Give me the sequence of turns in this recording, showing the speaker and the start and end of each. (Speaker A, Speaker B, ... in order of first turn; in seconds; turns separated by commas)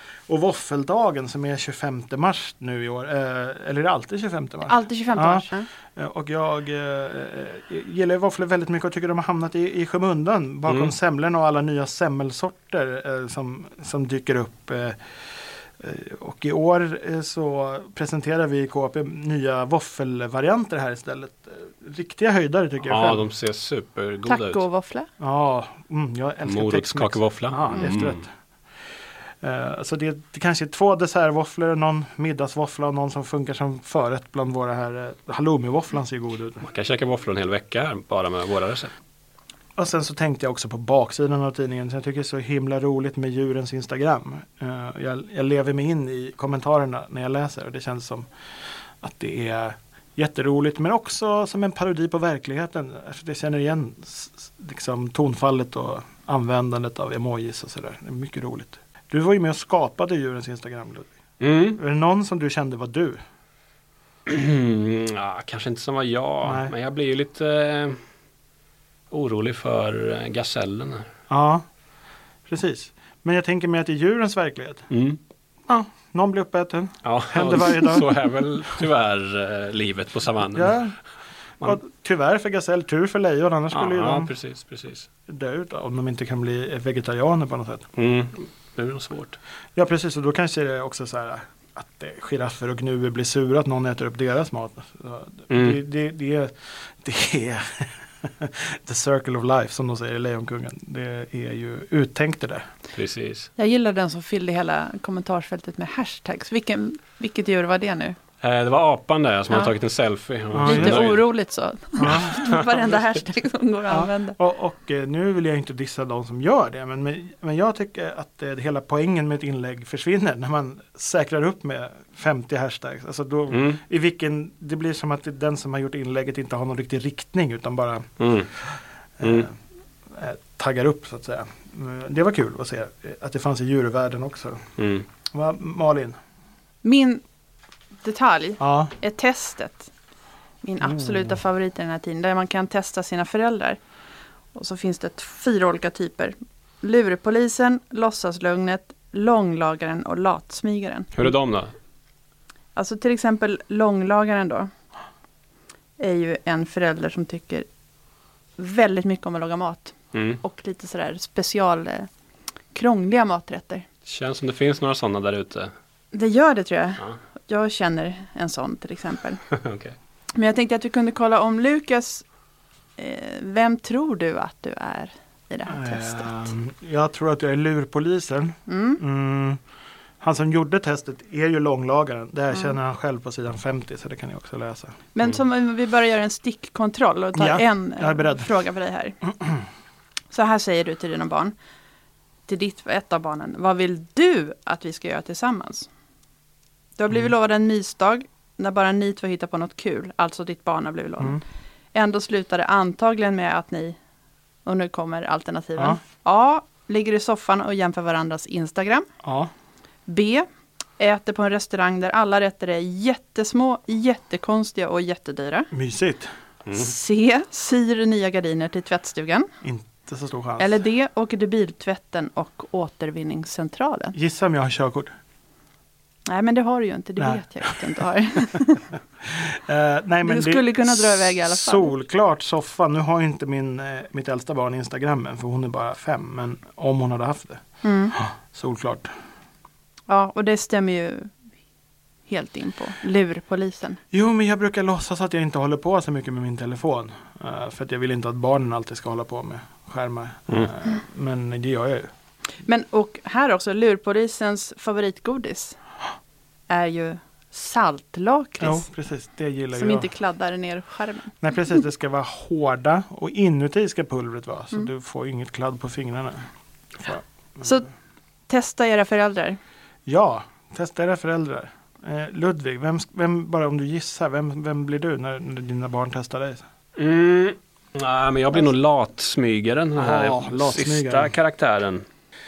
Speaker A: 0.3-15.0, Speaker B: 4.7-5.7, Speaker C: 10.7-10.9, Speaker A: 15.8-23.2, Speaker C: 22.8-24.6, Speaker B: 24.3-25.1, Speaker A: 25.2-28.3, Speaker C: 26.5-28.2, Speaker A: 29.4-36.7, Speaker C: 36.6-38.9, Speaker A: 39.8-48.3, Speaker A: 49.0-61.1, Speaker C: 61.4-61.8, Speaker A: 61.7-63.2, Speaker C: 64.3-68.0, Speaker A: 66.4-66.7, Speaker C: 69.1-71.1, Speaker A: 71.3-71.6, Speaker A: 72.5-74.9, Speaker C: 74.9-75.2, Speaker A: 75.7-78.2, Speaker C: 77.0-80.8, Speaker A: 80.5-81.0, Speaker A: 81.6-84.3, Speaker C: 83.7-85.1, Speaker A: 85.3-87.9, Speaker C: 88.0-89.4, Speaker A: 89.8-102.6, Speaker C: 95.5-95.8, Speaker C: 102.9-103.5, Speaker B: 103.6-108.2, Speaker C: 108.4-111.2, Speaker A: 110.5-111.1, Speaker B: 110.6-114.4, Speaker A: 112.0-112.7, Speaker A: 113.9-128.1, Speaker C: 123.5-123.8, Speaker C: 128.2-128.5, Speaker A: 129.2-129.6, Speaker C: 129.2-129.5, Speaker A: 130.2-134.6, Speaker C: 134.8-135.1, Speaker A: 135.3-136.2, Speaker B: 136.8-137.2, Speaker B: 138.0-139.9, Speaker A: 138.6-138.9, Speaker B: 140.6-143.8, Speaker A: 140.8-141.4, Speaker B: 144.6-151.1, Speaker C: 151.2-151.7, Speaker B: 152.8-154.7, Speaker B: 156.0-157.7, Speaker B: 158.6-162.1, Speaker C: 160.1-160.4, Speaker B: 162.7-163.8, Speaker C: 164.1-165.7, Speaker B: 166.1-169.4, Speaker C: 169.5-170.0, Speaker B: 170.3-172.2, Speaker B: 173.0-176.5, Speaker A: 175.7-179.6, Speaker B: 178.7-179.0, Speaker A: 180.2-185.0, Speaker B: 185.2-189.2, Speaker A: 187.4-188.5, Speaker B: 190.3-191.5, Speaker B: 192.5-195.9, Speaker B: 197.0-201.4, Speaker B: 201.9-204.0, Speaker B: 204.7-209.1, Speaker A: 209.2-209.5, Speaker B: 210.1-210.5, Speaker B: 211.0-215.7, Speaker A: 215.7-216.3, Speaker C: 216.7-216.9, Speaker B: 216.7-219.5, Speaker A: 219.6-220.8, Speaker B: 220.6-224.2, Speaker A: 224.1-225.1, Speaker B: 226.3-228.9, Speaker A: 227.2-227.8, Speaker A: 229.2-237.6, Speaker B: 230.2-231.9, Speaker B: 237.8-238.2, Speaker A: 238.2-239.1, Speaker B: 240.1-241.3, Speaker B: 242.3-244.0, Speaker A: 244.1-252.1, Speaker B: 252.7-255.8, Speaker B: 256.7-258.9, Speaker A: 258.6-260.1, Speaker B: 259.7-261.4, Speaker A: 261.4-267.7, Speaker B: 267.6-267.9, Speaker B: 268.5-269.6, Speaker A: 270.1-276.7, Speaker C: 277.0-282.1, Speaker A: 280.0-281.3